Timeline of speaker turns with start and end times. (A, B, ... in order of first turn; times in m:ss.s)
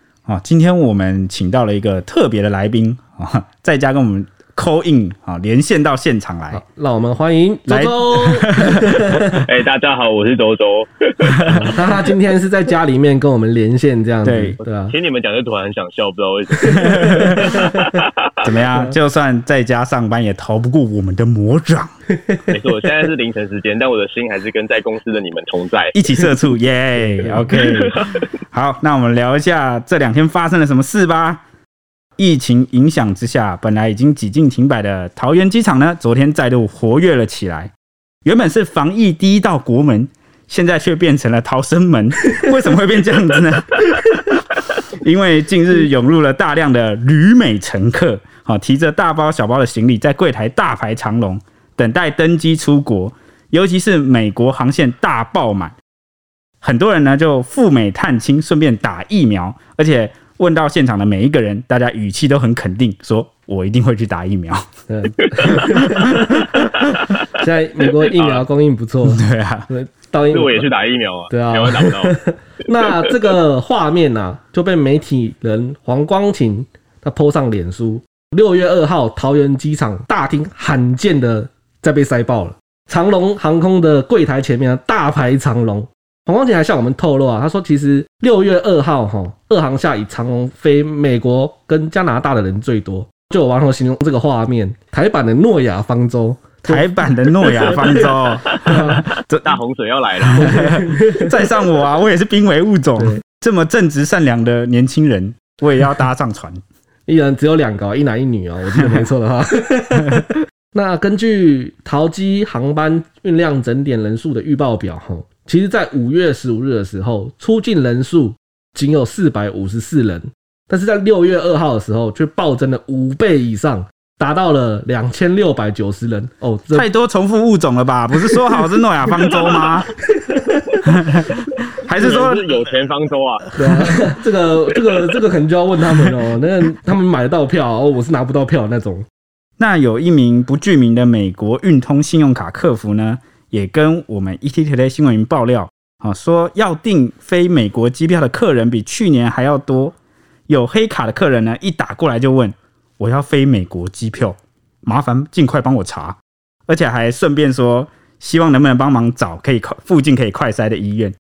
0:00.2-0:06.6 A
0:06.5-0:09.3 B
0:07.7-0:09.4 A
0:09.4-0:11.9 C
0:11.5-0:14.9 B
0:14.2-0:14.6 A
0:14.8-0:18.5 C
0:16.6-0:17.7 B
0:16.8-0:17.5 A
0:18.4-0:21.9 A
0:22.2-0:22.6 B
0:22.5-0:26.0 C
0:25.9-0:31.4 A
0:27.5-0:28.1 C
0:32.2-0:37.7 A
0:38.2-0:44.4 A
0:45.0-0:55.7 A
0:56.6-1:04.6 A
1:04.9-1:06.4 B
1:05.4-1:05.6 C
1:07.4-1:10.7 B
1:08.0-1:08.4 C
1:09.0-1:09.7 A
1:10.3-1:12.2 C
1:11.3-1:38.1 B
1:12.9-1:13.2 C
1:36.6-1:39.6 A
1:38.6-1:39.0 B
1:38.6-1:40.6 C
1:40.2-1:46.6 A
1:40.4-1:41.3 B
1:47.1-2:06.8 B
2:06.7-2:09.9 A
2:10.2-2:10.8 B
2:10.8-2:11.3 A
2:11.8-2:12.5 A
2:12.0-2:13.5 C
2:13.6-2:19.0 B
2:13.6-2:13.9 A
2:19.6-2:30.0 A
2:30.5-2:41.1 A